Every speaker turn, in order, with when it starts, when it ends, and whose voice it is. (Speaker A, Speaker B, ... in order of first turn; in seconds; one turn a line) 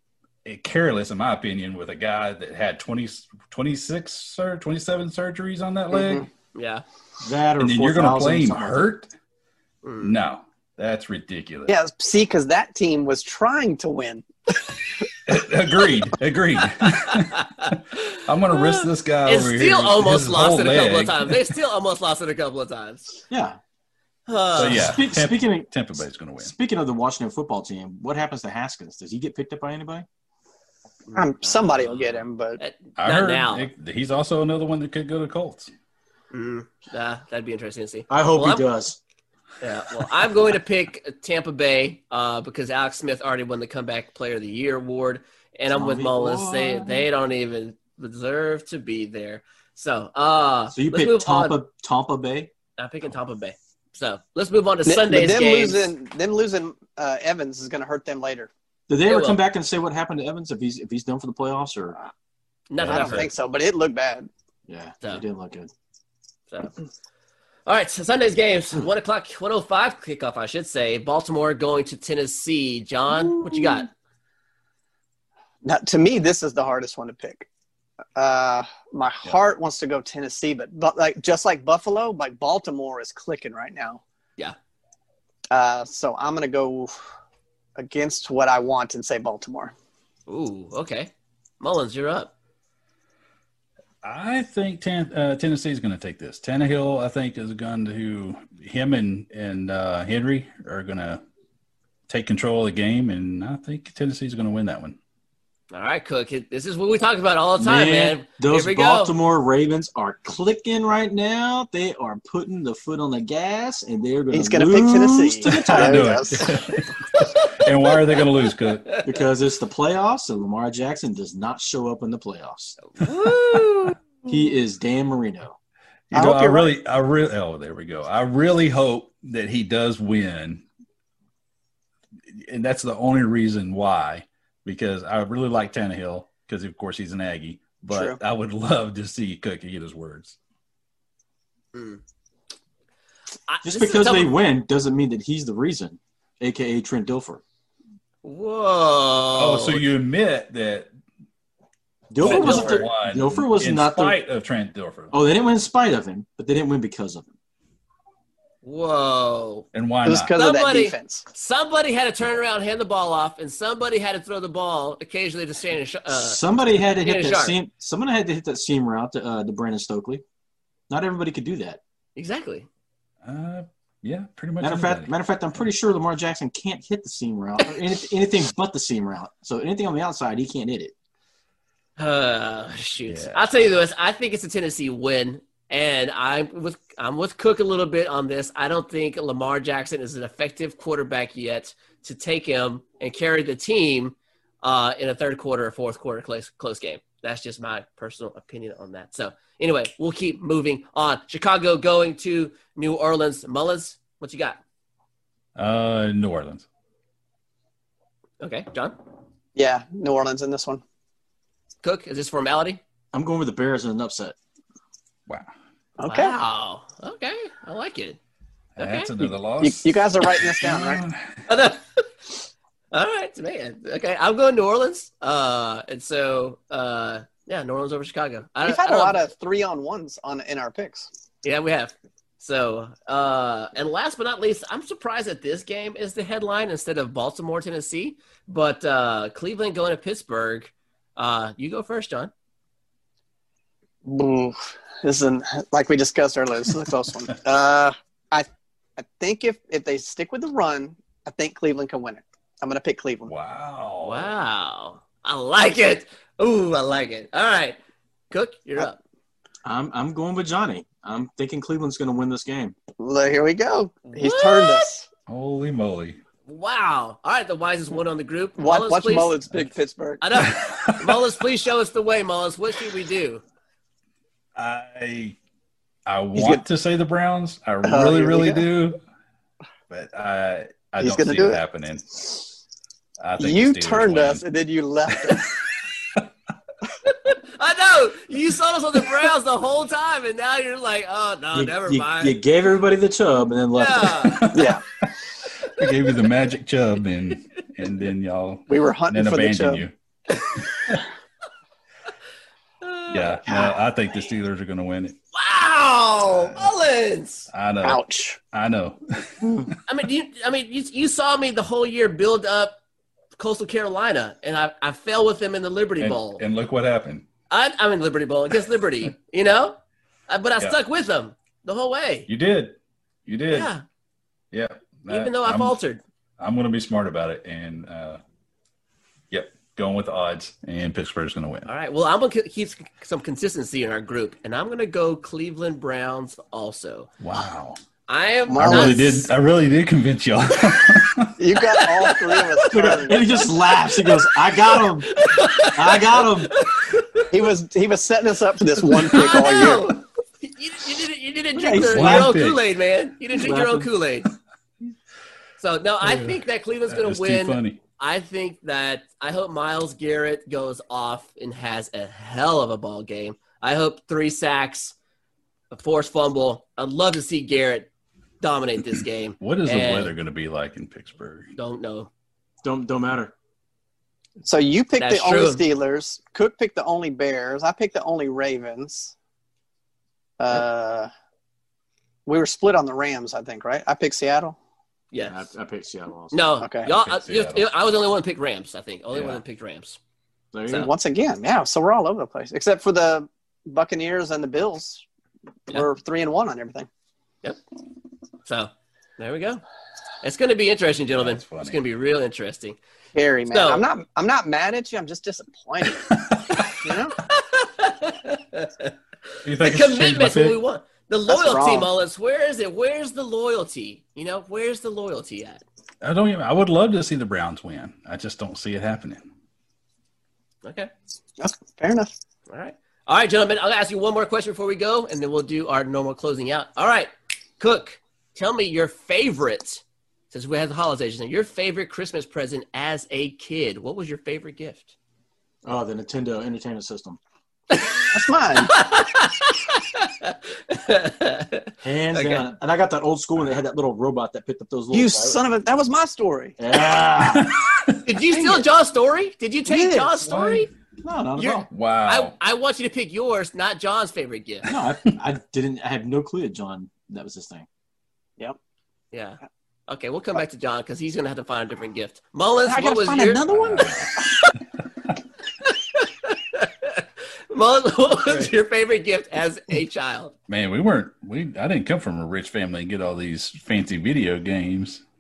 Speaker A: 0.5-6.3
Speaker B: 5.9-6.3
Speaker C: 6.5-6.8
Speaker D: 7.2-8.9
Speaker A: 7.6-9.1
Speaker C: 9.8-10.1
Speaker A: 10.0-11.8
Speaker B: 11.7-14.2
Speaker A: 15.3-21.5
Speaker C: 17.1-23.2
Speaker D: 23.3-23.6
Speaker C: 24.3-25.0
Speaker A: 24.6-26.5
Speaker D: 24.6-25.7
Speaker D: 26.4-30.1
Speaker C: 31.1-33.7
Speaker B: 31.1-32.6
Speaker A: 33.0-35.7
Speaker C: 36.3-38.6
Speaker D: 38.1-39.0
Speaker C: 39.6-51.6
Speaker D: 45.7-47.1
Speaker D: 50.7-52.5
Speaker C: 52.8-55.9
Speaker B: 54.9-58.5
Speaker D: 58.9-62.0
Speaker C: 59.1-59.4
Speaker C: 62.7-63.3
Speaker A: 62.8-63.3
Speaker B: 62.8-64.3
Speaker D: 64.7-65.7
Speaker C: 67.7-73.9
Speaker D: 73.2-73.8
Speaker B: 75.6-77.5
Speaker B: 78.2-84.0
Speaker B: 85.5-86.9
Speaker B: 87.8-89.7
Speaker C: 90.3-92.3
Speaker A: 94.0-101.2
Speaker A: 102.1-105.0
Speaker C: 105.7-109.1
Speaker D: 107.6-116.2
Speaker B: 114.3-116.5
Speaker A: 115.4-119.0
Speaker C: 117.1-117.5
Speaker D: 119.0-122.8
Speaker C: 123.0-124.0
Speaker D: 124.3-125.6
Speaker A: 126.1-130.7
Speaker B: 126.1-126.7
Speaker A: 132.3-140.4
Speaker B: 137.9-138.2
Speaker C: 141.7-142.0
Speaker C: 143.5-144.3
Speaker D: 143.6-147.4
Speaker C: 148.2-149.8
Speaker A: 149.4-150.9
Speaker D: 152.1-154.2
Speaker A: 152.2-155.2
Speaker C: 152.2-152.8
Speaker D: 155.1-157.3
Speaker C: 158.6-159.7
Speaker A: 159.7-160.3
Speaker B: 160.1-161.2
Speaker C: 160.4-166.4
Speaker D: 166.1-170.2
Speaker C: 167.0-167.6
Speaker D: 170.9-171.8
Speaker C: 172.2-172.7
Speaker A: 173.2-175.1
Speaker D: 174.6-180.9
Speaker C: 182.0-204.6
Speaker A: 183.1-183.5
Speaker A: 205.6-206.7
Speaker C: 208.4-209.0
Speaker B: 209.6-210.8
Speaker C: 211.8-212.8
Speaker D: 213.1-214.4
Speaker B: 216.0-216.3
Speaker C: 216.1-218.2
Speaker A: 218.8-221.5
Speaker C: 218.8-219.1
Speaker B: 219.6-221.0
Speaker C: 221.5-222.1
Speaker C: 222.9-229.2
Speaker B: 228.6-231.1
Speaker C: 231.4-242.3
Speaker B: 244.1-253.3
Speaker A: 253.3-254.3
Speaker C: 254.0-257.8
Speaker C: 258.3-259.0
Speaker D: 259.6-262.8
Speaker B: 263.0-265.1
Speaker C: 264.1-264.9
Speaker A: 265.3-266.2
Speaker C: 266.5-269.4
Speaker B: 268.6-270.5
Speaker C: 270.2-273.4
Speaker A: 274.6-275.4
Speaker A: 276.1-279.0
Speaker B: 276.4-276.6
Speaker B: 277.9-278.6
Speaker A: 279.9-282.5
Speaker B: 281.0-281.6
Speaker A: 283.2-284.4
Speaker B: 283.4-285.6
Speaker A: 285.2-285.5
Speaker C: 287.0-292.4
Speaker D: 291.5-294.5
Speaker C: 293.7-294.5
Speaker A: 294.3-295.1
Speaker B: 294.5-294.8
Speaker A: 295.6-299.9
Speaker B: 298.7-299.8
Speaker A: 300.6-301.0
Speaker C: 302.8-303.4
Speaker A: 303.1-305.2
Speaker C: 305.3-307.5
Speaker A: 306.3-306.7
Speaker A: 307.5-309.7
Speaker B: 307.8-308.4
Speaker C: 309.9-312.8
Speaker C: 313.4-316.4
Speaker A: 316.0-317.3
Speaker C: 317.5-319.8
Speaker C: 320.3-322.3
Speaker A: 322.3-323.7
Speaker C: 323.5-323.8
Speaker A: 324.5-325.8
Speaker C: 325.1-326.0
Speaker A: 326.4-328.2
Speaker A: 329.3-331.7
Speaker C: 331.7-337.1
Speaker A: 337.2-337.8
Speaker C: 338.1-339.3
Speaker B: 338.5-339.2
Speaker A: 338.6-341.3
Speaker B: 341.4-343.5
Speaker C: 341.7-347.3
Speaker D: 342.7-346.6
Speaker B: 347.3-349.9
Speaker C: 349.0-354.3
Speaker D: 351.6-352.4
Speaker A: 351.8-352.6
Speaker D: 353.3-353.9
Speaker C: 355.6-364.9
Speaker A: 356.0-356.4
Speaker A: 356.9-357.8
Speaker C: 365.7-367.9
Speaker C: 368.4-370.1
Speaker A: 369.4-371.6
Speaker C: 371.6-372.1
Speaker D: 372.6-373.3
Speaker B: 374.4-379.1
Speaker C: 375.0-375.6
Speaker B: 380.4-381.1
Speaker B: 382.3-384.6
Speaker C: 385.1-385.5
Speaker D: 385.2-386.4
Speaker C: 386.3-390.0
Speaker B: 386.6-386.9
Speaker A: 386.8-387.7
Speaker A: 389.1-389.4
Speaker D: 390.5-390.9
Speaker B: 390.7-395.0
Speaker B: 395.7-396.9
Speaker C: 398.4-399.6
Speaker C: 400.2-402.8
Speaker A: 401.2-401.8
Speaker B: 403.1-407.2
Speaker C: 403.5-403.9
Speaker A: 406.2-406.6
Speaker C: 407.2-408.9
Speaker A: 409.4-410.6
Speaker C: 409.6-415.6
Speaker B: 411.3-411.9
Speaker A: 416.0-419.3
Speaker C: 420.6-420.9
Speaker B: 421.4-422.1
Speaker C: 422.5-434.9
Speaker D: 435.6-437.2
Speaker C: 437.7-442.5
Speaker B: 438.1-438.8
Speaker D: 441.8-445.4
Speaker B: 444.9-446.6
Speaker D: 446.6-447.6
Speaker A: 447.2-448.0
Speaker C: 448.1-450.7
Speaker B: 448.2-448.7
Speaker B: 449.7-450.1
Speaker A: 450.2-450.7
Speaker D: 451.0-451.7
Speaker B: 451.4-451.6
Speaker A: 451.7-452.3
Speaker C: 452.1-454.7
Speaker D: 454.7-457.7
Speaker C: 459.1-463.4
Speaker B: 462.6-464.5
Speaker A: 463.5-464.2
Speaker C: 465.6-470.3
Speaker A: 468.3-468.5
Speaker A: 470.5-475.0